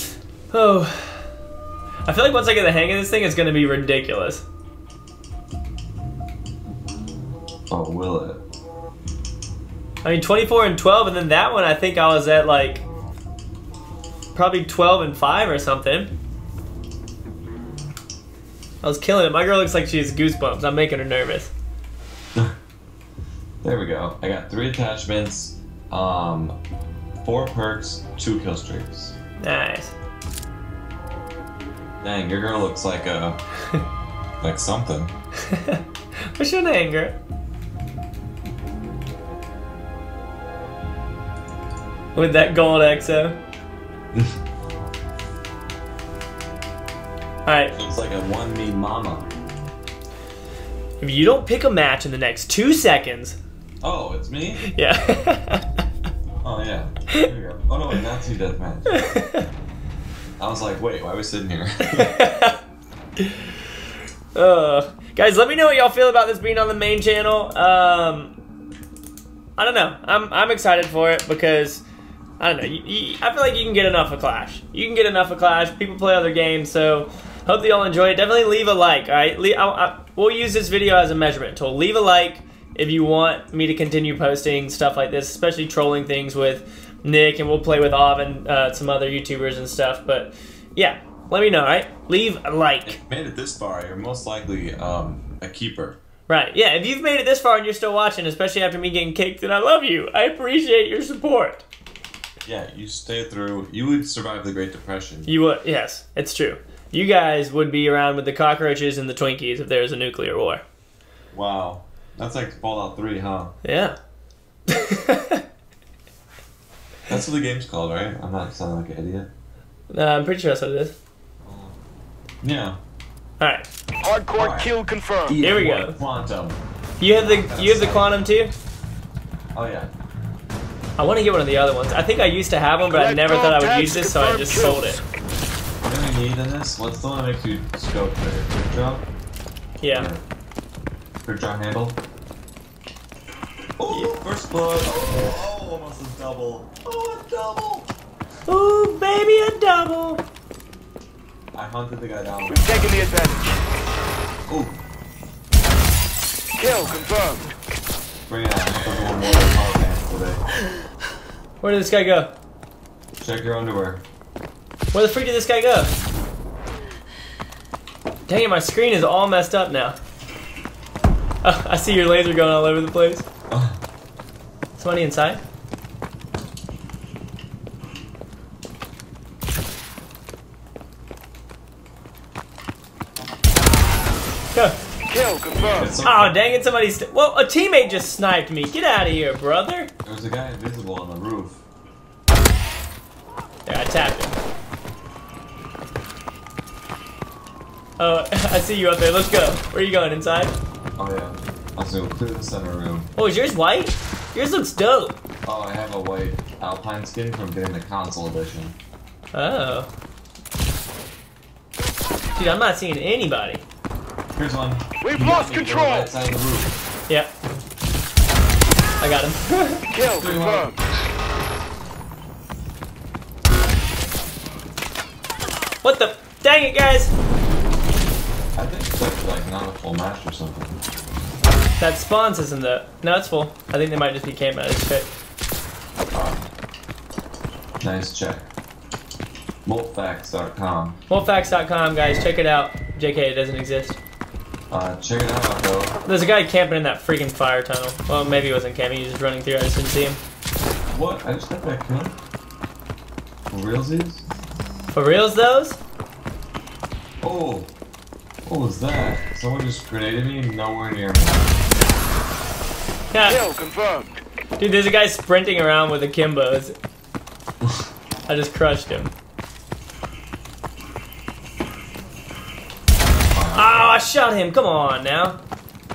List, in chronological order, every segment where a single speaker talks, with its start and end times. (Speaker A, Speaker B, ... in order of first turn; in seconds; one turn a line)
Speaker A: 0.5-1.2
Speaker A: 2.0-4.4
Speaker B: 7.7-8.4
Speaker A: 10.0-12.8
Speaker A: 14.3-16.1
Speaker A: 18.8-21.5
Speaker B: 23.6-26.6
Speaker B: 27.2-29.1
Speaker A: 29.4-29.9
Speaker B: 32.0-33.4
Speaker B: 34.4-35.1
Speaker A: 35.5-35.8
Speaker A: 36.3-37.1
Speaker A: 42.1-43.4
Speaker A: 47.5-47.7
Speaker B: 47.7-49.3
Speaker A: 51.0-53.4
Speaker B: 53.8-54.6
Speaker A: 54.6-55.8
Speaker B: 56.4-59.0
Speaker A: 58.9-59.5
Speaker B: 60.4-62.2
Speaker A: 61.8-62.6
Speaker A: 64.3-68.3
Speaker A: 69.6-71.8
Speaker A: 72.4-92.9
Speaker B: 92.8-96.0
Speaker A: 96.3-101.6
Speaker B: 102.4-105.4
Speaker A: 105.2-110.6
Speaker B: 111.3-113.5
Speaker A: 113.6-114.0
Speaker A: 114.7-115.4
Speaker B: 117.1-119.3
Speaker A: 119.9-120.9
Speaker B: 121.4-121.8
Speaker B: 122.4-122.8
Speaker A: 123.4-123.7
Speaker C: 124.0-125.4
Speaker B: 124.3-124.7
Speaker B: 125.3-128.2
Speaker A: 125.4-126.0
Speaker A: 127.0-128.5
Speaker B: 129.5-129.9
Speaker A: 131.0-135.0
Speaker C: 132.8-134.9
Speaker B: 135.8-139.1
Speaker A: 139.8-140.1
Speaker B: 139.8-140.2
Speaker B: 141.2-142.0
Speaker B: 143.8-147.9
Speaker A: 143.9-144.2
Speaker A: 148.5-150.2
Speaker B: 151.5-153.3
Speaker C: 152.5-153.5
Speaker B: 154.5-154.8
Speaker C: 156.6-157.4
Speaker B: 156.8-157.4
Speaker B: 158.3-160.4
Speaker A: 161.6-162.3
Speaker B: 163.2-164.0
Speaker A: 164.9-165.9
Speaker A: 168.3-169.9
Speaker A: 171.4-173.2
Speaker B: 173.5-173.8
Speaker A: 174.8-175.4
Speaker C: 185.1-185.9
Speaker B: 185.6-186.4
Speaker A: 186.0-189.9
Speaker B: 190.0-191.6
Speaker A: 193.7-194.3
Speaker A: 198.0-200.5
Speaker B: 200.9-203.1
Speaker A: 203.2-205.2
Speaker B: 205.4-208.8
Speaker A: 209.3-209.9
Speaker A: 212.3-213.6
Speaker B: 214.3-216.7
Speaker C: 215.0-216.1
Speaker A: 219.0-219.9
Speaker C: 219.9-220.8
Speaker B: 220.1-220.7
Speaker A: 225.8-227.1
Speaker B: 228.5-230.8
Speaker A: 231.8-235.1
Speaker B: 236.1-236.5
Speaker B: 237.8-238.5
Speaker B: 239.6-241.0
Speaker A: 241.1-244.0
Speaker B: 244.7-246.0
Speaker A: 246.0-250.2
Speaker B: 250.9-252.1
Speaker B: 253.5-254.2
Speaker A: 254.9-255.8
Speaker B: 257.2-257.7
Speaker B: 258.4-261.5
Speaker A: 263.1-263.4
Speaker C: 263.2-264.2
Speaker A: 264.6-266.7
Speaker A: 268.3-269.1
Speaker B: 273.3-273.9
Speaker A: 273.5-275.4